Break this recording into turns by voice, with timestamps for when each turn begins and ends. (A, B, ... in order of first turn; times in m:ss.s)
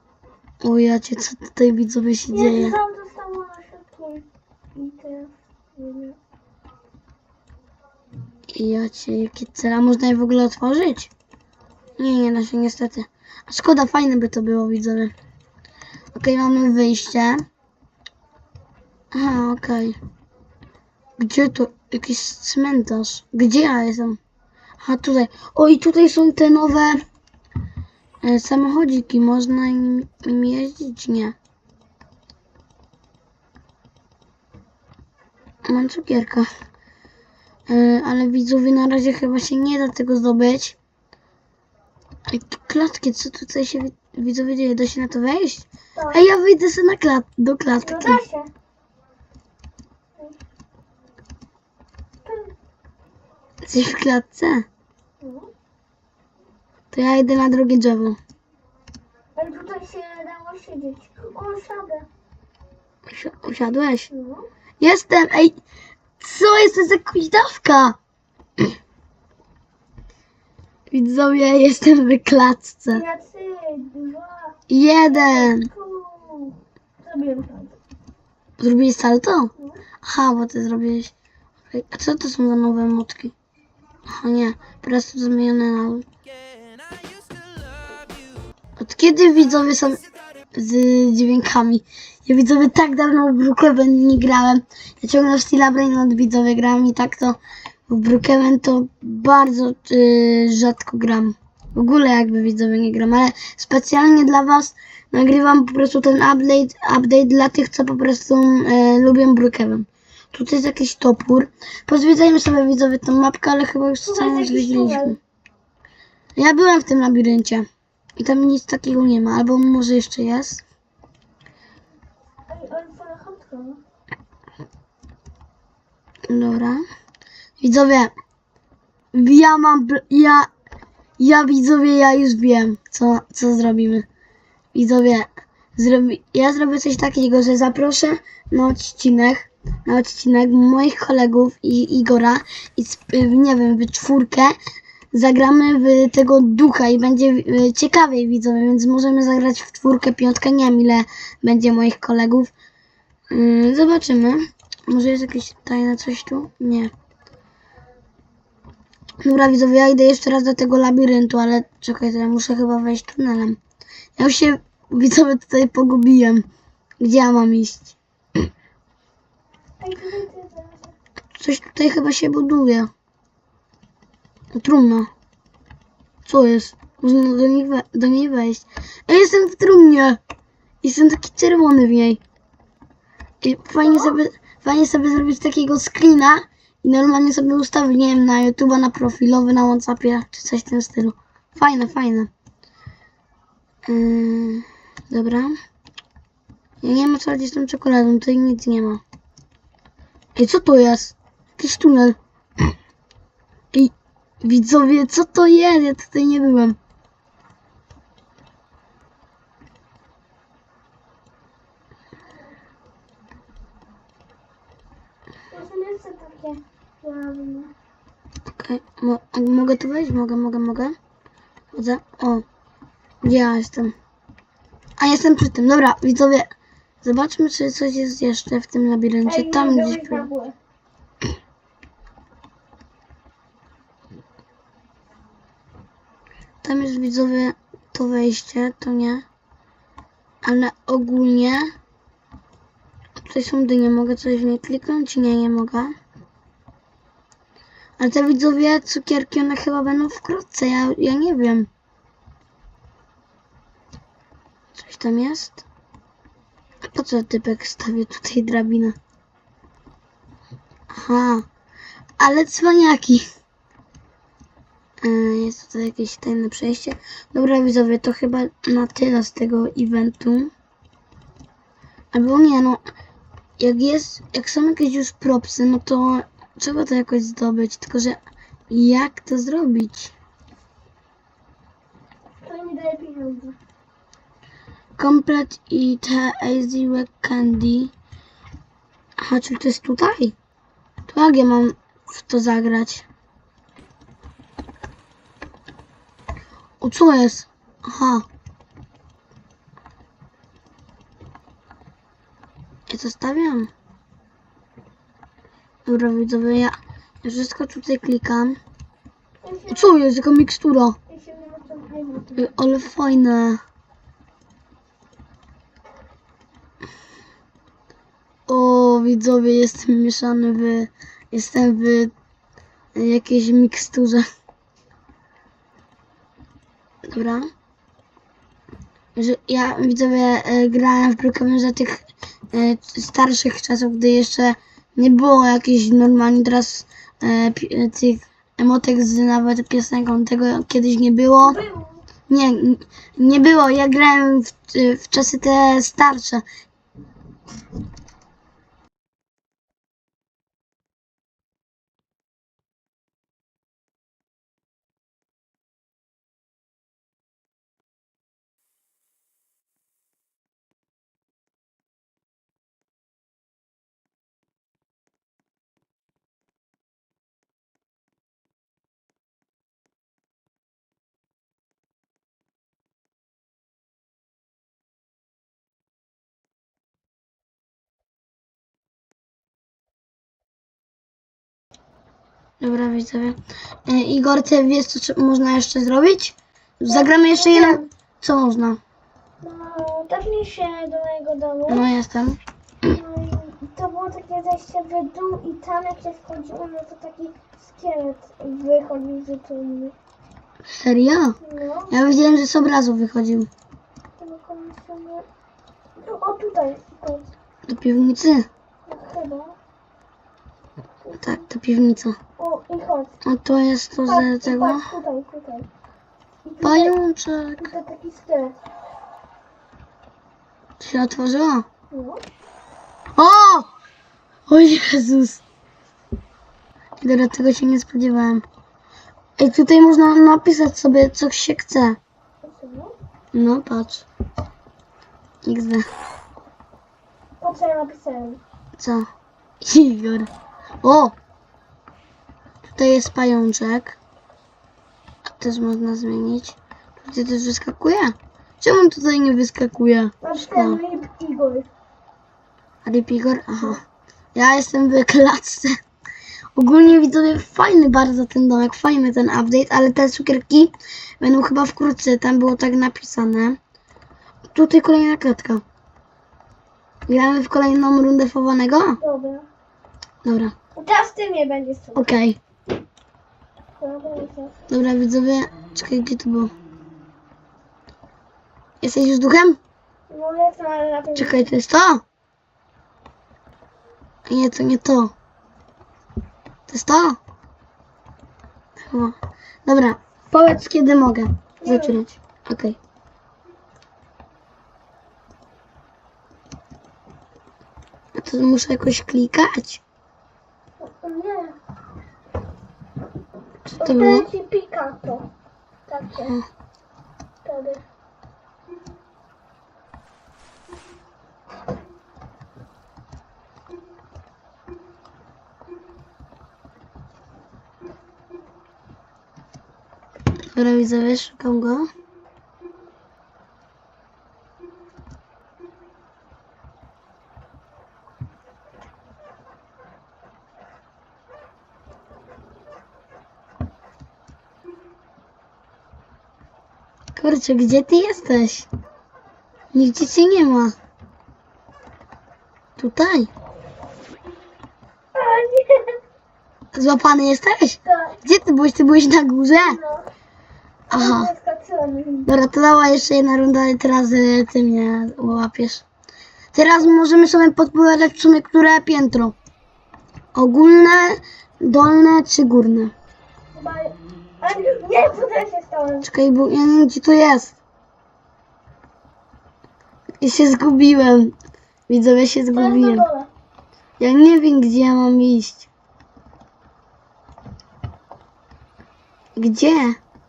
0:00.6-0:02.8 A
0:02.3-0:06.2 B
0:08.5-0:11.1 A
0:12.0-0:15.1 A
0:16.1-0:17.4 A
0:19.1-0:20.0 A
0:21.2-0:24.2 A
0:24.8-0:27.0 A
0:28.2-0:31.4 A
0:35.6-0:36.5 A
0:37.7-0:40.8 A
0:42.3-0:48.2 A
0:45.9-0:46.2 B
0:47.8-0:48.5 B
0:52.2-0:52.5 B
0:53.6-0:54.6 A
0:55.2-0:55.5 B
0:56.9-0:58.2 A
0:59.4-1:02.1 B
1:03.1-1:04.1 A
1:04.1-1:04.5 B
1:04.8-1:05.6 A
1:06.2-1:08.0 A
1:10.9-1:13.0 A
1:12.9-1:17.8 B
1:14.7-1:15.7 A
1:18.6-1:21.1 A
1:21.7-1:23.3 A
1:24.1-1:26.0 A
1:28.8-1:30.0 A
1:30.5-1:55.2 A
1:54.0-1:55.2 B
1:56.4-2:00.6 A
2:02.5-2:03.8 B
2:06.3-2:06.8 A
2:07.6-2:08.1 A
2:09.1-2:10.5 A
2:11.2-2:14.0 A
2:14.7-2:24.5 A
2:25.1-2:32.5 A
2:33.3-2:36.9 A
2:39.2-2:43.6 A
2:44.2-2:46.4 A
2:47.0-2:48.0 A
2:49.8-2:50.9 B
2:51.4-2:52.9 A
2:54.5-2:55.1 A
2:56.2-3:00.2 A
3:00.8-3:02.2 A
3:03.4-3:12.3 A
3:03.8-3:04.1 B
3:13.9-3:15.6 A
3:16.8-3:19.0 A
3:20.3-3:22.2 A
3:23.7-3:26.8 A
3:35.5-3:37.7 B
3:38.5-3:40.9 A
3:41.7-3:42.4 A
3:43.2-3:43.9 A
3:45.0-3:46.5 A
3:47.0-3:50.3 A
3:49.2-3:50.6 B
3:56.6-3:59.2 A
4:00.4-4:01.7 A
4:03.2-4:05.9 A
4:08.0-4:11.7 A
4:14.7-4:15.6 A
4:16.9-4:19.0 A
4:20.9-4:21.4 A
4:22.2-4:23.2 A
4:25.0-4:30.5 A
4:32.1-4:32.8 A
4:33.6-4:40.1 A
4:42.4-4:43.6 B
4:45.0-4:47.9 A
4:49.2-4:50.3 A
4:51.1-4:53.0 A
4:56.8-4:58.2 A
5:02.9-5:03.7 A
5:05.8-5:08.6 A
5:09.4-5:09.9 B
5:09.7-5:11.0 A
5:11.1-5:12.5 B
5:12.4-5:13.6 A
5:18.5-5:22.1 A
5:22.9-5:24.2 A
5:27.1-5:27.5 A
5:29.2-5:32.0 A
5:32.5-5:41.6 A
5:41.4-5:42.0 B
5:42.3-5:46.4 A
6:22.6-6:28.8 A
6:26.9-6:27.9 B
6:29.4-6:31.9 B
6:31.7-6:32.4 A
6:32.8-6:40.0 B
6:40.7-6:41.4 A
6:41.4-6:42.0 B
6:41.9-6:43.5 A
6:44.2-6:45.2 B
6:46.0-6:47.3 B
6:47.7-6:48.5 A
6:48.8-6:49.6 B
6:51.1-6:52.2 A
6:52.4-6:53.1 B
6:53.2-6:54.9 A
6:54.1-6:55.7 B
6:56.4-6:56.9 B
6:56.6-6:57.7 A
6:57.6-6:58.6 B
7:00.8-7:01.6 A
7:01.9-7:02.2 B
7:03.2-7:03.7 A
7:04.5-7:05.4 A
7:07.0-7:08.4 A
7:09.4-7:12.0 A
7:12.4-7:12.9 B
7:13.3-7:14.0 A
7:15.4-7:15.8 A
7:17.4-7:18.4 B
7:18.8-7:19.0 A
7:19.6-7:20.3 A
7:20.8-7:21.1 A
7:22.6-7:24.0 A
7:25.3-7:30.8 A
7:30.2-7:31.7 B
7:32.8-7:33.8 A
7:34.3-7:35.7 A
7:36.6-7:43.6 A
7:44.5-7:45.6 A
7:47.1-7:49.0 A
7:49.0-7:49.5 B
7:50.2-7:50.5 A
7:50.7-7:52.0 B
7:51.9-7:52.4 A
7:53.8-7:54.6 B
7:54.7-7:56.5 A
7:58.8-7:59.6 A
8:00.1-8:01.5 B
8:01.2-8:02.0 A
8:04.3-8:05.1 A
8:06.7-8:07.2 A
8:08.8-8:09.1 A
8:09.6-8:12.8 A
8:11.6-8:12.0 B
8:18.1-8:19.8 A
8:20.8-8:21.6 B
8:23.7-8:24.3 A
8:23.8-8:25.3 B
8:25.9-8:26.3 B
8:27.4-8:27.8 B
8:40.5-8:41.9 A
8:57.2-8:58.7 A
8:59.7-9:00.7 A
9:02.8-9:03.3 A
9:05.1-9:06.0 B
9:06.7-9:09.8 A
9:07.8-9:08.2 B
9:09.6-9:10.1 B
9:10.9-9:11.3 A
9:10.9-9:12.3 B
9:12.2-9:15.8 A
9:16.5-9:19.3 A
9:20.3-9:22.9 A
9:23.5-9:26.1 B
9:26.0-9:27.5 A
9:30.2-9:31.3 A
9:31.9-9:33.0 A
9:32.5-9:33.3 B
9:34.0-9:35.7 A
9:39.4-9:40.0 A